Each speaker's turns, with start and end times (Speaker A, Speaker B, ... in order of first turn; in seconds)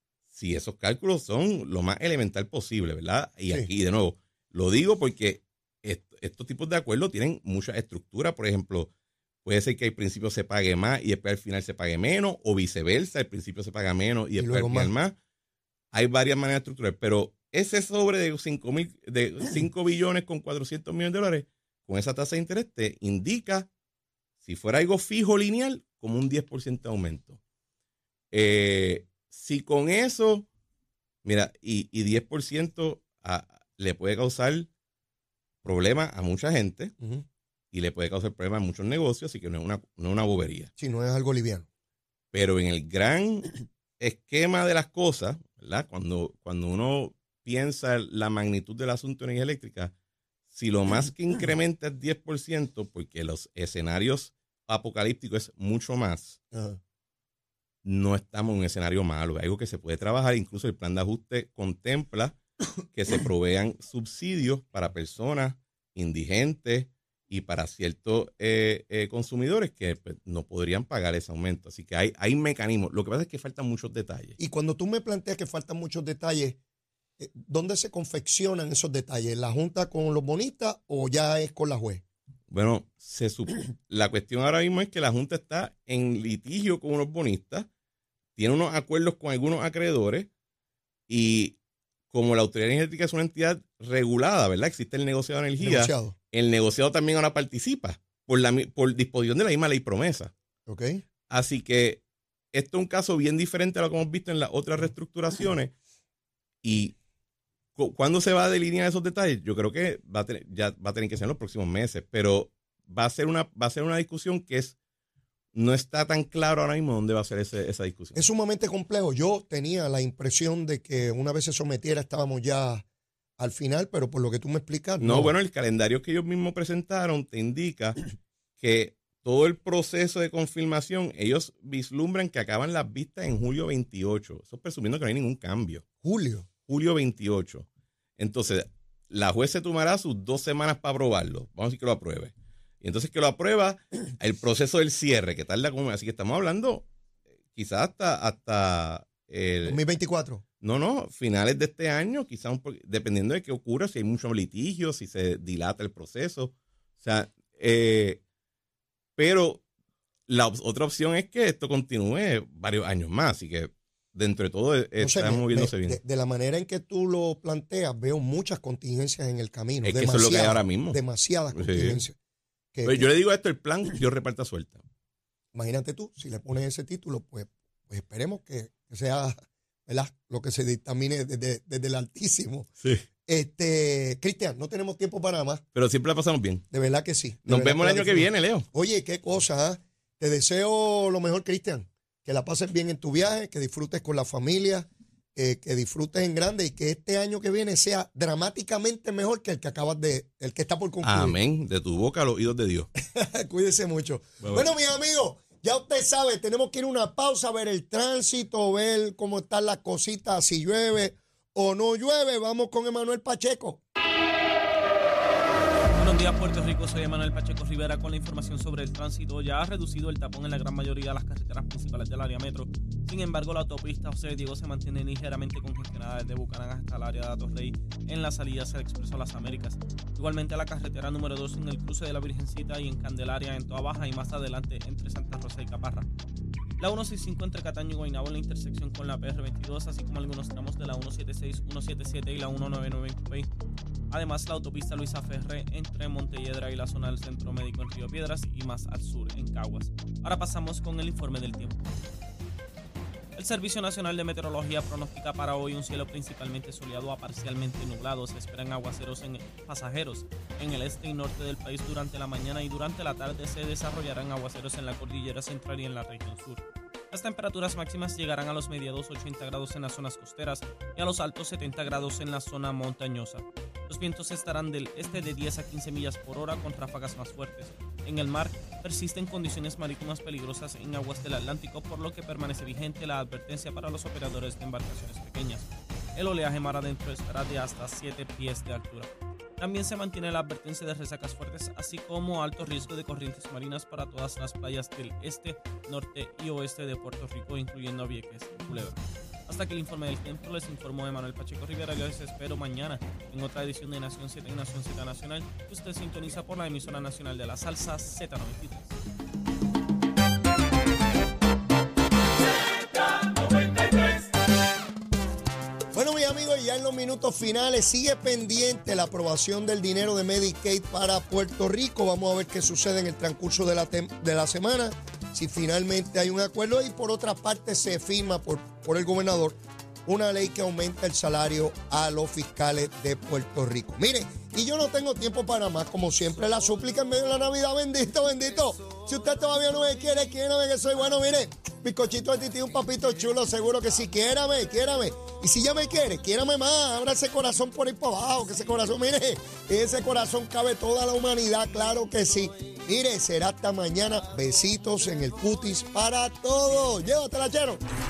Speaker A: 0.3-8.9, 9.4-15.2, 15.9-23.7, 24.4-27.4, 28.3-30.5, 31.2-34.7, 35.6-36.9, 37.7-40.7, 42.3-49.9, 50.5-56.4, 57.8-62.4, 62.9-74.4, 82.5-87.7, 88.4-90.3, 91.1-91.6, 92.1-100.3, 101.3-105.7, 106.6-107.0, 107.8-114.8, 115.5-118.2, 125.0-128.0, 128.6-135.9, 136.7-137.7, 138.2-146.9, 147.5-149.8, 150.6-158.2, 159.2-159.6, 160.3-166.0, 169.8-171.0, 171.5-172.0, 172.8-174.8, 185.8-186.6, 187.5-188.7, 201.0-202.9, 204.4-204.7
Speaker B: 14.4-14.9, 40.8-41.7, 56.5-56.8, 74.4-76.6, 77.2-82.0, 95.6-96.2, 100.7-101.0, 118.2-122.8, 123.4-125.3, 136.0-136.5, 149.7-150.4, 165.0-172.2, 172.7-173.1, 175.5-182.7, 183.3-185.6, 186.7-201.3, 203.1-213.8, 315.9-357.8
Speaker C: 216.0-236.1, 236.8-243.5, 244.1-251.9, 253.4-308.9